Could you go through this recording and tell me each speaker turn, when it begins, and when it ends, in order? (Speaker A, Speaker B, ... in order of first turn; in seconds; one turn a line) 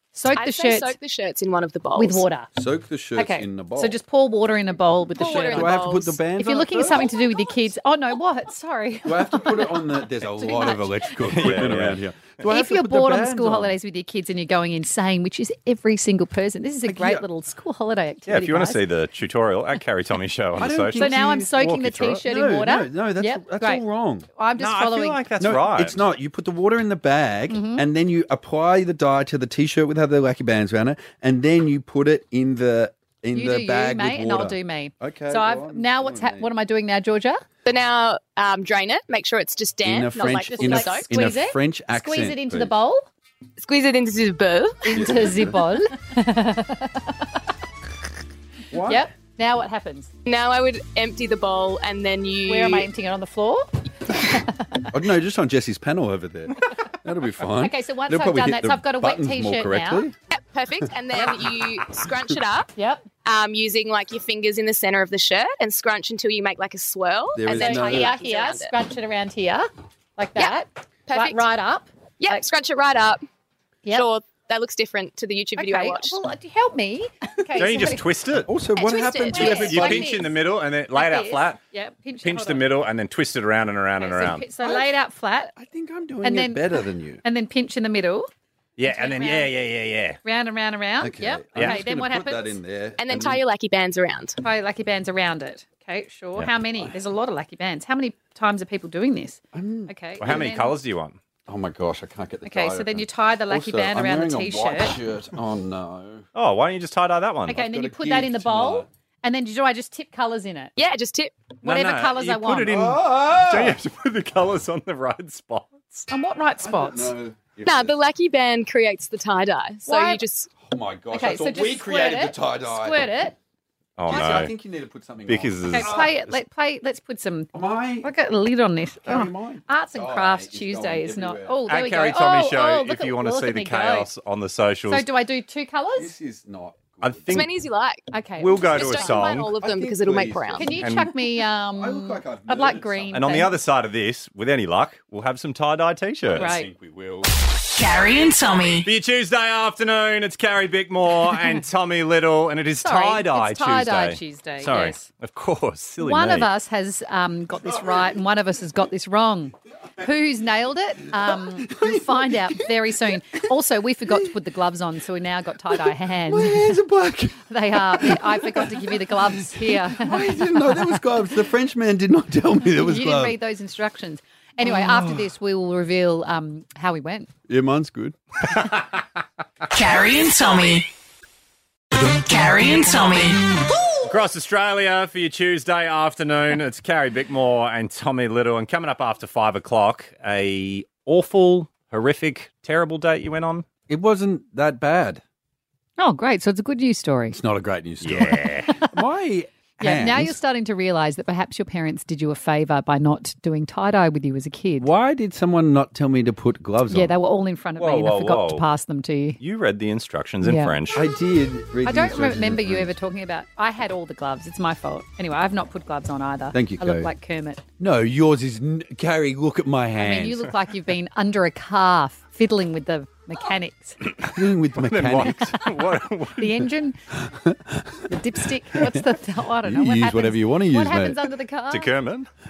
Speaker A: 0.1-1.0
Speaker B: 0.3-2.2
Speaker A: 2.0-2.5
Speaker C: 2.5-4.0
Speaker A: 3.2-11.5
Speaker B: 5.2-6.2
Speaker C: 5.2-7.2
Speaker C: 9.1-13.8
Speaker D: 11.3-12.0
Speaker A: 12.5-18.8
Speaker C: 16.9-17.2
Speaker D: 18.3-22.2
Speaker C: 20.6-21.6
Speaker A: 20.9-23.8
Speaker C: 22.2-24.3
Speaker A: 24.4-25.2
Speaker D: 24.6-26.0
Speaker C: 25.4-36.5
Speaker A: 27.5-27.9
Speaker A: 33.3-37.4
Speaker B: 37.6-41.3
Speaker C: 39.8-42.8
Speaker A: 40.2-43.1
Speaker B: 43.6-45.1
Speaker A: 44.8-47.3
Speaker C: 44.9-45.6
Speaker C: 48.7-49.1
Speaker A: 48.9-50.1
Speaker B: 50.2-52.9
Speaker A: 52.5-54.9
Speaker C: 54.9-60.1
Speaker A: 57.6-60.1
Speaker B: 60.3-62.7
Speaker A: 62.8-63.0
Speaker B: 63.2-68.7
Speaker C: 67.3-68.2
Speaker A: 67.5-72.5
Speaker B: 71.1-71.4
Speaker B: 72.2-73.2
Speaker B: 73.9-76.2
Speaker A: 75.6-78.1
Speaker D: 77.6-78.5
Speaker C: 78.5-80.1
Speaker B: 78.8-79.8
Speaker A: 79.3-80.3
Speaker D: 79.4-81.6
Speaker A: 80.9-82.7
Speaker D: 82.2-84.5
Speaker A: 84.0-85.5
Speaker C: 84.6-84.9
Speaker C: 85.5-87.2
Speaker A: 86.2-88.3
Speaker D: 88.8-90.2
Speaker A: 88.8-89.5
Speaker A: 90.2-92.6
Speaker C: 91.0-93.4
Speaker B: 93.0-94.4
Speaker A: 94.4-100.7
Speaker C: 99.5-100.5
Speaker D: 100.2-101.2
Speaker C: 101.5-106.2
Speaker A: 102.5-105.0
Speaker D: 106.3-107.6
Speaker A: 107.5-110.7
Speaker C: 107.5-108.9
Speaker B: 110.8-111.4
Speaker A: 111.6-112.8
Speaker D: 111.6-116.1
Speaker C: 112.7-113.8
Speaker A: 116.1-117.1
Speaker C: 116.6-118.0
Speaker B: 117.7-120.5
Speaker A: 119.9-120.2
Speaker C: 120.6-123.2
Speaker A: 121.1-123.3
Speaker D: 124.0-124.5
Speaker C: 124.0-126.2
Speaker D: 125.3-126.1
Speaker A: 125.7-127.5
Speaker C: 127.5-128.1
Speaker A: 128.0-134.1
Speaker C: 129.0-131.6
Speaker D: 131.7-135.1
Speaker A: 134.9-136.1
Speaker C: 136.0-137.4
Speaker D: 137.0-137.5
Speaker B: 137.3-138.0
Speaker A: 138.1-139.4
Speaker D: 138.4-139.6
Speaker B: 138.7-140.7
Speaker C: 139.7-140.9
Speaker A: 140.6-143.6
Speaker D: 140.8-141.1
Speaker C: 141.7-143.2
Speaker D: 143.1-146.5
Speaker C: 146.3-147.3
Speaker A: 146.4-146.7
Speaker E: 147.7-148.9
Speaker D: 148.8-156.5
Speaker A: 152.8-155.1
Speaker A: 156.0-166.8
Speaker C: 161.2-162.7
Speaker C: 165.7-173.4
Speaker A: 167.5-171.0
Speaker A: 172.8-177.3
Speaker C: 174.6-175.2
Speaker C: 177.5-178.2
Speaker E: 179.7-180.9
Speaker E: 182.0-183.6
Speaker D: 184.1-193.7
Speaker C: 193.9-195.2
Speaker A: 196.0-197.4
Speaker C: 197.3-200.4
Speaker D: 198.0-198.7
Speaker A: 199.8-204.9
Speaker C: 204.8-207.1
Speaker A: 206.9-209.4
Speaker D: 207.8-208.7
Speaker D: 209.4-211.1
Speaker A: 210.4-210.7
Speaker C: 210.9-212.9
Speaker A: 211.8-217.6
Speaker C: 216.5-217.1
Speaker C: 217.8-220.5
Speaker A: 220.0-224.0
Speaker C: 224.2-225.6
Speaker D: 224.8-226.6
Speaker A: 226.4-227.0
Speaker C: 227.1-228.1
Speaker A: 228.1-231.9
Speaker C: 228.7-229.1
Speaker C: 229.6-231.2
Speaker D: 231.7-232.3